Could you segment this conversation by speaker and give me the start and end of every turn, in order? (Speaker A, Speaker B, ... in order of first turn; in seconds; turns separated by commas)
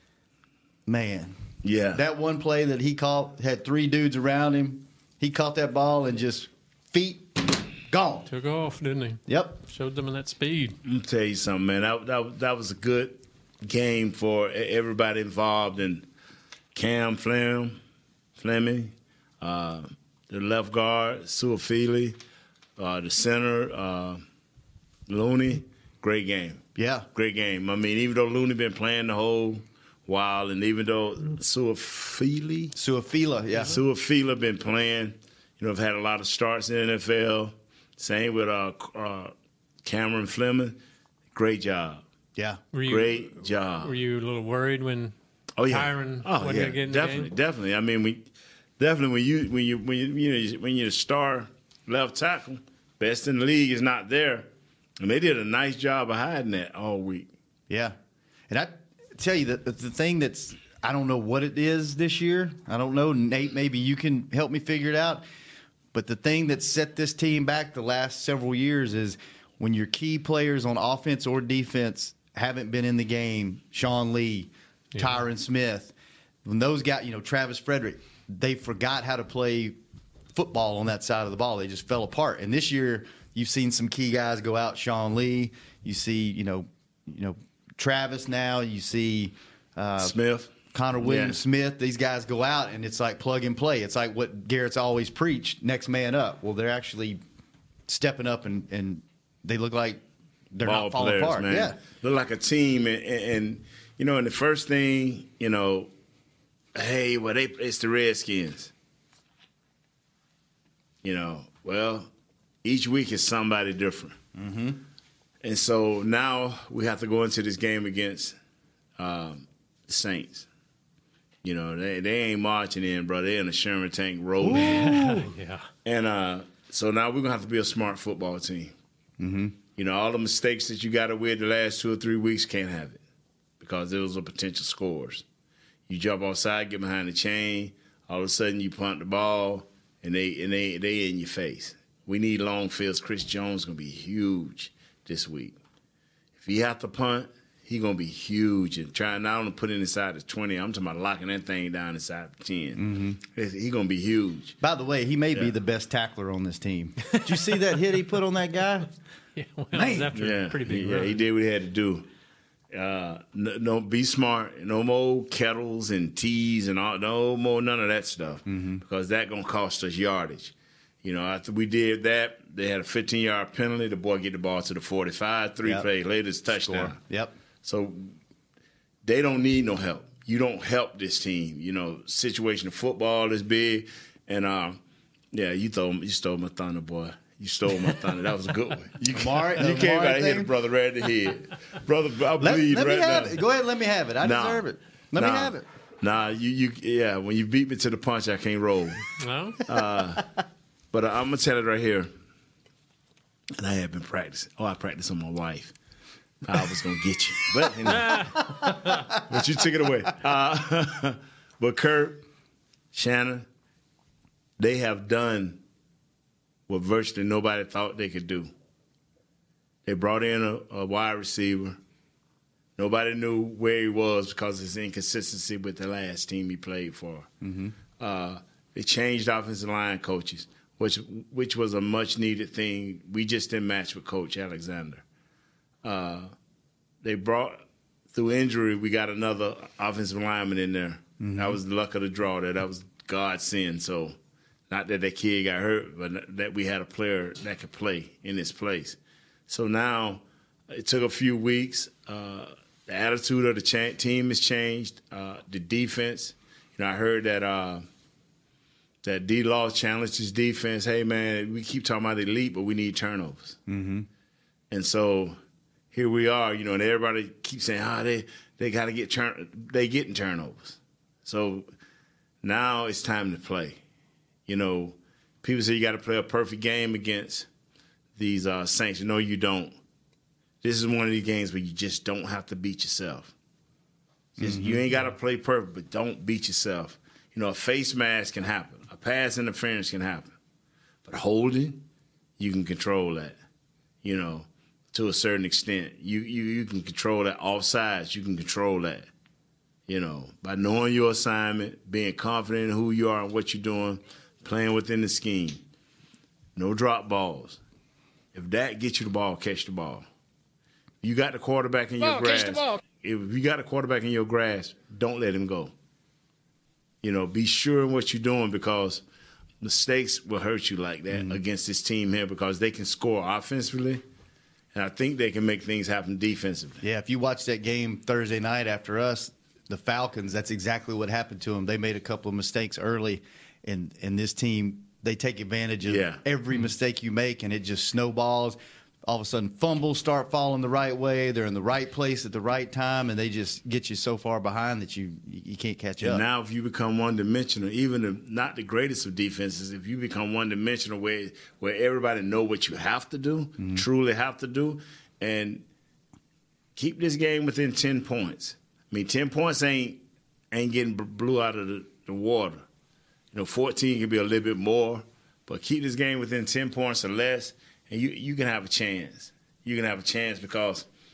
Speaker A: 0.8-1.3, Speaker B: 1.6-2.0, Speaker A: 1.9-8.3, Speaker C: 8.3-10.8, Speaker A: 9.3-9.6, Speaker B: 10.8-16.1, Speaker B: 16.7-17.8, Speaker B: 18.4-22.2, Speaker B: 22.8-24.2, Speaker B: 25.1-26.6, Speaker A: 26.8-27.1, Speaker B: 27.1-32.7, Speaker A: 32.8-33.8, Speaker B: 33.6-39.3, Speaker B: 39.8-40.8, Speaker B: 41.3-42.0, Speaker A: 42.4-42.6, Speaker C: 42.7-45.1, Speaker B: 42.8-44.0, Speaker B: 45.6-48.3, Speaker C: 45.7-47.3, Speaker B: 48.8-57.3, Speaker A: 57.7-58.0, Speaker A: 58.5-65.2, Speaker A: 65.9-75.9, Speaker C: 74.9-75.2, Speaker A: 76.4-79.8, Speaker A: 80.3-90.2, Speaker B: 90.0-91.4, Speaker A: 90.7-97.2, Speaker A: 97.9-101.8, Speaker B: 100.6-105.9, Speaker B: 106.7-108.7, Speaker B: 111.0-112.1, Speaker B: 112.6-114.2, Speaker A: 114.3-114.8, Speaker B: 115.4-118.4, Speaker B: 119.0-120.5, Speaker B: 121.4-124.9, Speaker A: 124.4-125.3, Speaker C: 124.5-125.6, Speaker B: 125.8-128.7, Speaker A: 129.2-129.6, Speaker B: 129.8-133.0, Speaker B: 133.6-135.2, Speaker B: 135.9-145.6, Speaker B: 146.4-154.6, Speaker A: 152.8-153.2, Speaker A: 154.6-158.9, Speaker C: 159.3-161.2, Speaker A: 159.7-160.2, Speaker B: 160.1-162.0, Speaker B: 162.7-177.0, Speaker A: 168.4-168.8, Speaker A: 176.5-177.3, Speaker B: 177.6-178.1, Speaker B: 179.0-184.8, Speaker B: 185.3-193.4, Speaker A: 189.1-190.5, Speaker A: 192.4-195.6, Speaker B: 194.2-194.6, Speaker B: 195.2-199.1, Speaker C: 199.2-199.6, Speaker B: 199.6-200.3, Speaker B: 200.9-202.1, Speaker B: 203.6-205.7, Speaker B: 206.4-208.3, Speaker C: 207.9-208.8, Speaker B: 209.2-212.2, Speaker B: 212.9-213.5, Speaker B: 214.6-215.6, Speaker B: 216.7-218.5, Speaker B: 219.8-221.8, Speaker B: 222.8-227.3, Speaker A: 227.4-227.7, Speaker B: 228.0-235.0, Speaker B: 235.8-236.3, Speaker B: 237.0-237.6, Speaker B: 238.1-244.2, Speaker A: 241.2-241.6, Speaker B: 244.7-257.8, Speaker B: 259.0-263.6, Speaker A: 263.7-264.1, Speaker B: 264.7-265.4, Speaker B: 265.9-271.7, Speaker B: 272.4-273.8, Speaker B: 274.5-277.5, Speaker B: 278.2-279.8, Speaker B: 280.6-283.3, Speaker B: 284.4-290.3, Speaker A: 284.4-284.9, Speaker B: 291.0-291.8, Speaker B: 292.4-293.4, Speaker B: 294.0-299.1, Speaker B: 299.9-305.6, Speaker B: 306.6-307.6, Speaker B: 308.3-310.0, Speaker B: 311.0-315.7, Speaker B: 317.0-319.0, Speaker B: 319.6-324.0, Speaker A: 321.1-321.4, Speaker B: 324.7-326.8, Speaker A: 326.8-346.2, Speaker B: 335.8-336.2, Speaker B: 346.0-355.6, Speaker A: 353.6-353.8, Speaker B: 356.8-362.6, Speaker B: 363.3-370.9